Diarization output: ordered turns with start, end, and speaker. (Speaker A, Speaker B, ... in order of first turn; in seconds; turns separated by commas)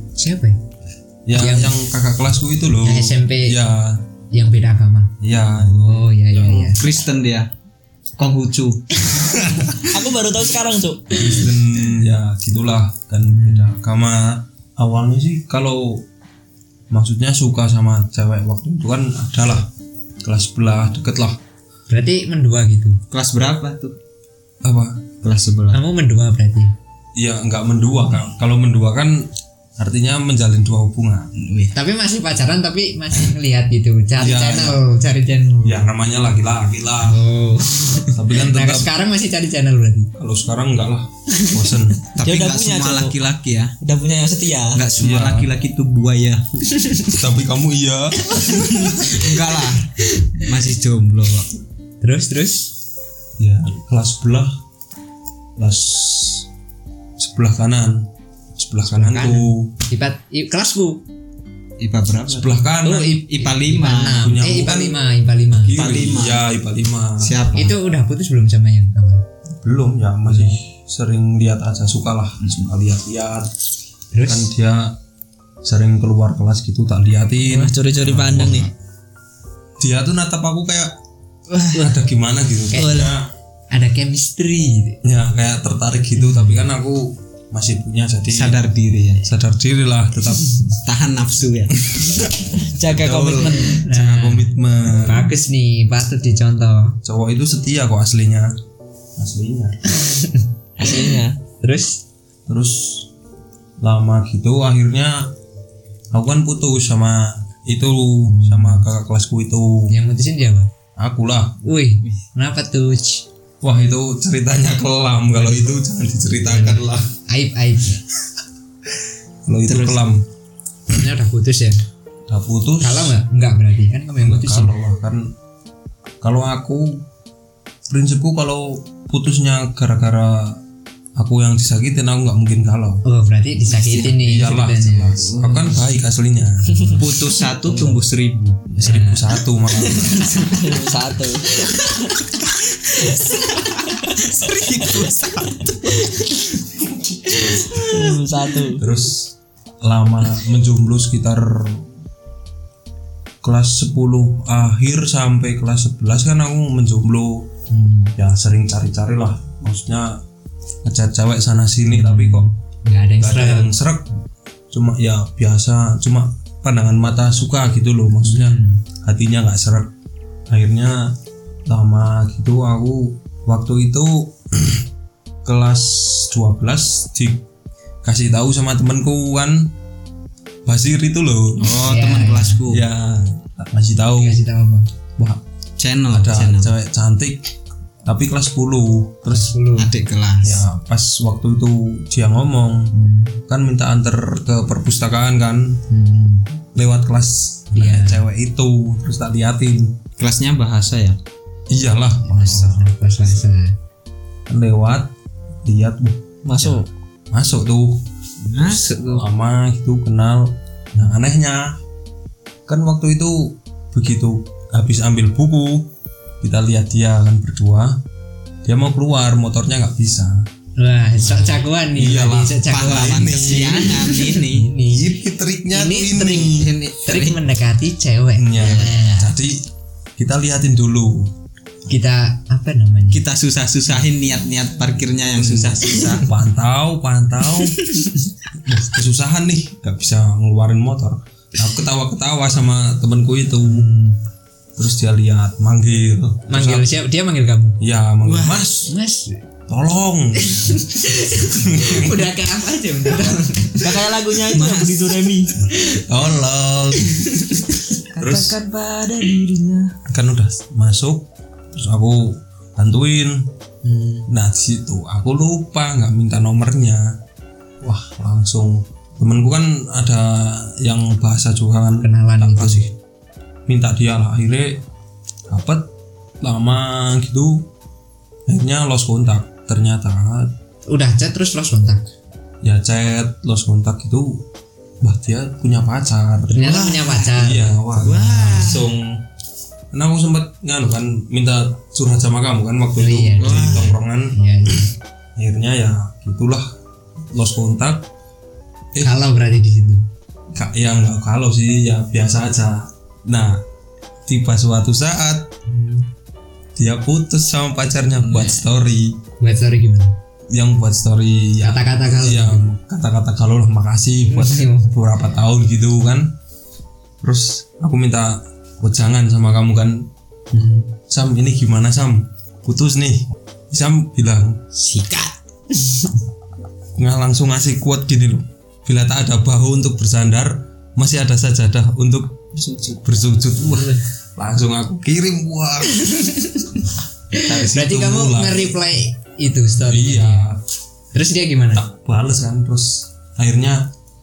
Speaker A: 0.2-0.6, Speaker B: 1.2-4.0, Speaker A: 1.3-1.8, Speaker A: 2.8-3.6, Speaker A: 4.3-6.8, Speaker B: 5.2-6.7, Speaker C: 6.7-7.5, Speaker C: 8.2-8.8, Speaker B: 9.2-9.8, Speaker D: 9.8-11.4, Speaker B: 11.1-16.1, Speaker A: 13.2-13.7, Speaker B: 16.9-19.7, Speaker B: 20.2-21.4, Speaker A: 21.9-23.0, Speaker C: 23.1-23.9, Speaker B: 24.6-25.0, Speaker C: 25.2-25.8, Speaker A: 25.7-26.7, Speaker B: 27.1-31.3, Speaker C: 31.3-31.7, Speaker A: 31.7-35.9, Speaker B: 34.2-34.8, Speaker B: 35.6-37.2, Speaker A: 37.0-40.1, Speaker B: 38.1-38.9, Speaker B: 40.1-42.0, Speaker A: 41.3-41.6, Speaker C: 42.1-43.7, Speaker D: 42.2-43.1, Speaker D: 43.8-44.8, Speaker C: 44.7-46.4, Speaker B: 45.0-45.5, Speaker A: 46.7-47.2, Speaker B: 47.1-49.2, Speaker A: 48.3-49.0, Speaker C: 49.0-51.5, Speaker A: 52.0-52.7, Speaker B: 53.4-54.6, Speaker B: 55.6-56.5, Speaker B: 57.2-59.7, Speaker A: 58.8-61.0, Speaker C: 61.8-62.7, Speaker B: 62.3-63.2, Speaker A: 62.8-65.8, Speaker C: 63.2-64.3, Speaker B: 64.1-65.0, Speaker B: 65.6-67.5, Speaker C: 65.7-66.5, Speaker C: 67.2-67.8, Speaker A: 67.5-69.2, Speaker B: 69.6-73.5, Speaker A: 70.3-70.6, Speaker C: 72.4-72.7, Speaker A: 74.1-74.5, Speaker B: 74.2-75.0, Speaker B: 75.6-78.7, Speaker D: 77.4-78.7, Speaker C: 78.1-78.7, Speaker B: 79.8-80.9, Speaker C: 81.5-81.9, Speaker B: 81.6-83.3, Speaker D: 82.7-83.1, Speaker A: 82.7-83.0, Speaker A: 83.7-85.0, Speaker B: 85.0-88.6, Speaker A: 86.2-86.7, Speaker C: 88.3-89.3, Speaker B: 89.2-90.8, Speaker C: 90.8-91.7, Speaker B: 91.9-95.3, Speaker D: 92.7-93.7, Speaker A: 93.4-97.0, Speaker B: 97.0-98.5, Speaker B: 99.2-99.8, Speaker A: 99.9-101.0, Speaker D: 100.8-101.4, Speaker A: 101.6-102.0, Speaker B: 102.5-103.1, Speaker B: 103.8-105.3, Speaker B: 106.1-109.9, Speaker A: 108.3-108.9, Speaker A: 109.9-110.7, Speaker B: 111.0-111.6, Speaker A: 111.6-113.2, Speaker B: 113.6-117.1, Speaker A: 116.4-118.0, Speaker B: 119.5-120.3, Speaker C: 119.7-120.0, Speaker A: 120.9-121.8, Speaker B: 122.3-123.1, Speaker A: 122.8-124.8, Speaker B: 124.2-125.3, Speaker B: 126.2-127.0, Speaker B: 127.9-130.6, Speaker B: 131.2-133.0, Speaker A: 133.0-135.3, Speaker C: 133.7-134.2, Speaker B: 134.0-137.1, Speaker C: 135.2-135.8, Speaker A: 136.7-137.0, Speaker C: 137.0-138.8, Speaker A: 137.6-138.0, Speaker A: 138.7-139.4, Speaker B: 138.8-140.3, Speaker A: 139.9-140.6, Speaker D: 140.3-142.1, Speaker A: 141.7-141.9, Speaker A: 143.0-143.3, Speaker C: 143.5-146.1, Speaker A: 147.5-147.9, Speaker D: 147.7-148.8, Speaker B: 148.8-151.9, Speaker B: 153.4-157.5, Speaker A: 157.7-158.2, Speaker B: 158.2-160.2, Speaker B: 160.8-162.5, Speaker A: 161.9-163.7, Speaker B: 163.2-164.1, Speaker B: 164.7-169.9, Speaker A: 168.2-168.8, Speaker B: 170.5-171.1, Speaker B: 171.7-174.8, Speaker B: 175.4-177.4, Speaker B: 178.0-179.7, Speaker B: 180.7-181.7, Speaker C: 181.6-182.9, Speaker A: 181.8-182.6, Speaker B: 182.7-184.4, Speaker A: 184.2-184.9, Speaker C: 185.8-186.7, Speaker B: 186.1-187.5, Speaker B: 188.0-189.6, Speaker A: 189.3-189.9, Speaker C: 189.8-190.7, Speaker B: 190.4-192.9, Speaker A: 192.9-193.4, Speaker B: 193.5-195.8, Speaker A: 195.9-196.5, Speaker B: 196.7-199.9, Speaker A: 197.7-198.2, Speaker C: 200.2-201.2, Speaker B: 201.7-203.4, Speaker A: 202.2-203.8, Speaker B: 204.5-205.1, Speaker B: 205.6-208.1, Speaker D: 206.4-206.9, Speaker C: 208.4-209.3, Speaker B: 208.6-211.8, Speaker B: 212.7-218.0, Speaker B: 218.6-220.5, Speaker A: 220.8-225.1, Speaker B: 221.2-223.9, Speaker C: 222.7-224.7, Speaker B: 224.9-226.7, Speaker A: 225.7-229.4, Speaker C: 226.4-227.4, Speaker B: 228.4-231.3, Speaker C: 228.6-229.0, Speaker A: 231.9-233.2, Speaker C: 233.1-236.3, Speaker B: 235.3-237.9, Speaker B: 238.5-243.9, Speaker A: 243.7-244.2, Speaker B: 244.8-246.9, Speaker A: 246.5-247.8, Speaker B: 247.8-248.9, Speaker C: 248.2-248.7, Speaker A: 248.9-249.4, Speaker B: 249.7-252.2, Speaker A: 250.4-253.9, Speaker D: 253.8-255.6, Speaker C: 254.5-255.1, Speaker A: 255.7-256.0, Speaker B: 256.0-257.3, Speaker A: 257.0-257.9, Speaker D: 258.1-259.9, Speaker B: 258.2-258.6, Speaker B: 260.1-263.5, Speaker A: 263.8-264.3, Speaker B: 264.3-267.2, Speaker B: 267.8-272.9, Speaker A: 272.0-272.9, Speaker B: 273.7-274.8, Speaker B: 275.5-275.9, Speaker B: 276.4-277.7, Speaker B: 278.5-280.5, Speaker A: 280.9-282.1, Speaker B: 282.6-284.4, Speaker B: 285.0-286.6, Speaker A: 286.5-288.7, Speaker C: 286.6-288.9, Speaker B: 287.2-289.2, Speaker B: 289.9-296.7, Speaker A: 293.0-294.9, Speaker C: 293.4-294.0, Speaker B: 297.3-298.1, Speaker B: 298.9-299.2, Speaker A: 299.0-300.1, Speaker B: 300.5-303.6, Speaker B: 304.2-305.5, Speaker A: 305.7-306.1, Speaker B: 306.8-309.2, Speaker C: 308.1-308.6, Speaker A: 309.4-310.1, Speaker B: 310.5-316.3, Speaker A: 311.6-312.6, Speaker A: 314.3-314.9, Speaker B: 317.2-324.6, Speaker A: 320.5-320.9, Speaker C: 324.8-325.3, Speaker B: 326.9-332.4, Speaker D: 332.5-333.0, Speaker B: 333.0-336.1, Speaker A: 333.6-334.0, Speaker A: 335.9-340.5, Speaker B: 337.4-338.8, Speaker B: 339.8-340.6, Speaker A: 341.1-341.9, Speaker B: 341.7-343.9